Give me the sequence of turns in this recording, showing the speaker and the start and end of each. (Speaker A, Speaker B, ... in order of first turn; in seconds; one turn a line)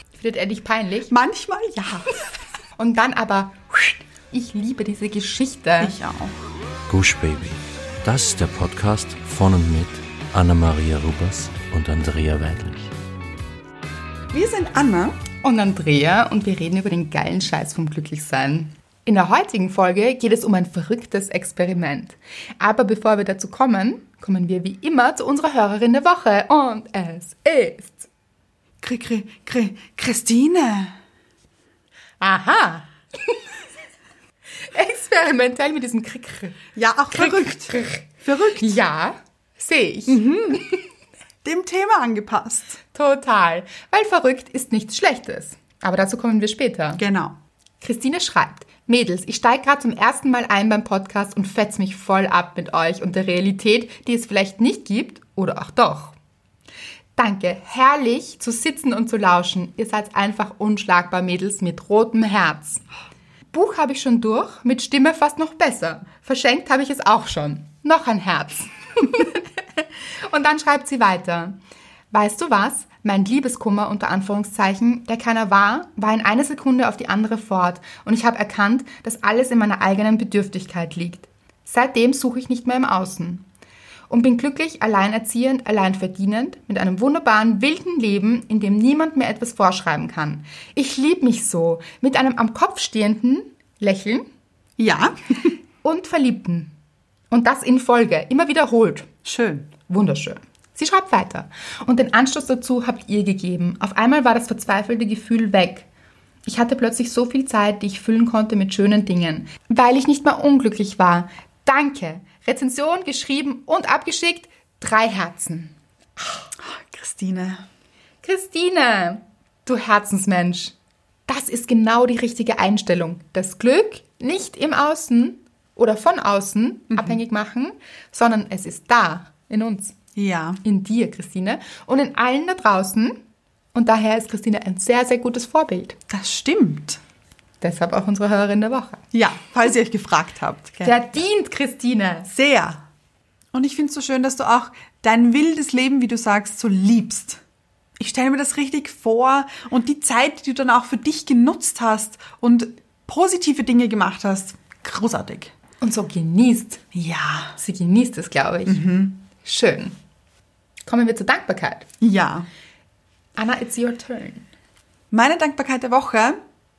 Speaker A: 0.2-1.1
Speaker B: 1.1-2.1
Speaker A: 2.8-5.9
Speaker B: 5.8-6.4
Speaker C: 6.9-12.9
Speaker B: 14.3-15.2
Speaker A: 15.4-28.1
Speaker B: 28.8-31.0
Speaker A: 32.2-33.4
Speaker A: 34.7-38.0
Speaker B: 36.8-38.8
Speaker A: 38.6-40.8
Speaker B: 40.1-40.6
Speaker B: 41.4-42.8
Speaker A: 42.9-47.0
Speaker B: 47.0-47.4
Speaker A: 47.8-56.1
Speaker A: 57.2-62.8
Speaker A: 63.5-71.6
Speaker A: 72.1-83.5
Speaker A: 84.1-94.3
Speaker B: 94.8-95.5
Speaker A: 95.8-96.7
Speaker A: 97.3-99.1
Speaker B: 99.2-99.7
Speaker A: 99.9-105.9
Speaker A: 106.5-116.5
Speaker B: 116.6-117.6
Speaker A: 118.2-120.7
Speaker A: 121.3-129.9
Speaker B: 126.9-127.2
Speaker B: 130.2-130.6
Speaker A: 130.6-133.2
Speaker A: 133.7-136.0
Speaker B: 136.1-137.0
Speaker A: 137.6-139.0
Speaker B: 139.1-140.9
Speaker A: 140.8-142.3
Speaker B: 142.3-142.8
Speaker B: 143.5-147.4
Speaker B: 148.0-155.5
Speaker A: 155.8-156.8
Speaker B: 156.9-157.6
Speaker A: 157.6-159.9
Speaker B: 158.7-159.2
Speaker A: 160.8-161.9
Speaker B: 162.0-162.5
Speaker A: 163.4-164.5
Speaker B: 165.1-166.4